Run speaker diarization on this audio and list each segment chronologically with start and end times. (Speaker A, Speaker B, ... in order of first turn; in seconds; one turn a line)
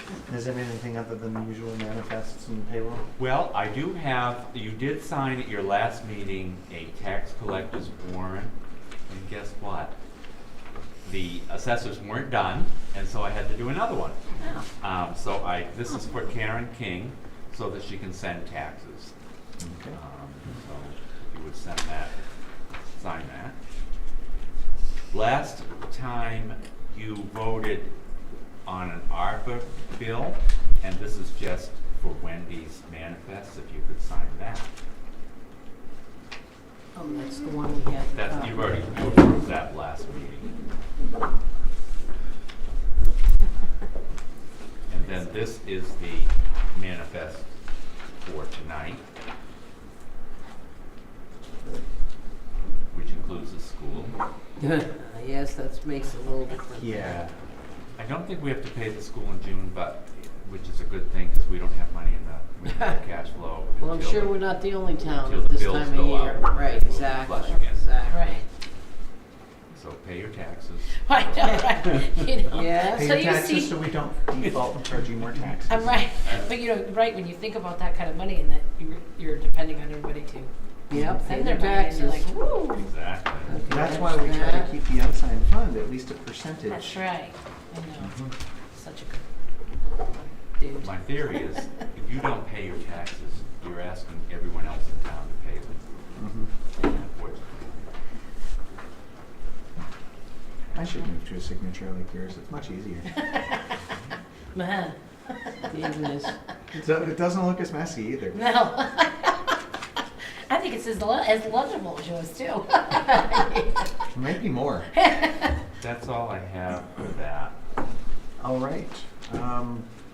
Speaker A: 0.3-3.1
Speaker B: 3.2-8.5
Speaker B: 9.1-10.0
Speaker B: 11.1-14.2
Speaker B: 14.8-19.1
Speaker A: 19.6-20.0
Speaker B: 19.9-22.2
Speaker B: 22.9-23.6
Speaker B: 25.1-27.9
Speaker B: 28.6-34.7
Speaker C: 37.0-38.8
Speaker B: 38.1-40.6
Speaker B: 44.9-47.5
Speaker B: 48.2-49.0
Speaker B: 52.9-54.1
Speaker C: 54.6-57.2
Speaker A: 56.8-57.4
Speaker B: 58.0-64.4
Speaker C: 63.8-68.4
Speaker B: 65.2-68.1
Speaker D: 68.1-68.4
Speaker B: 69.7-71.8
Speaker D: 71.0-73.8
Speaker C: 72.5-73.1
Speaker A: 72.9-76.0
Speaker D: 75.7-80.5
Speaker C: 80.9-82.8
Speaker D: 81.3-82.5
Speaker B: 82.7-83.5
Speaker C: 83.5-84.7
Speaker A: 83.6-87.0
Speaker D: 86.7-88.2
Speaker A: 88.0-88.3
Speaker D: 88.7-89.2
Speaker D: 90.6-91.7
Speaker B: 90.8-95.8
Speaker A: 96.2-96.5
Speaker B: 96.8-97.8
Speaker A: 100.7-103.2
Speaker D: 103.3-103.6
Speaker D: 104.5-105.7
Speaker C: 105.7-106.4
Speaker A: 106.7-108.5
Speaker D: 108.3-109.6
Speaker D: 110.5-114.1
Speaker A: 114.1-114.9
Speaker D: 114.9-115.6
Speaker B: 115.8-117.6
Speaker A: 118.4-119.9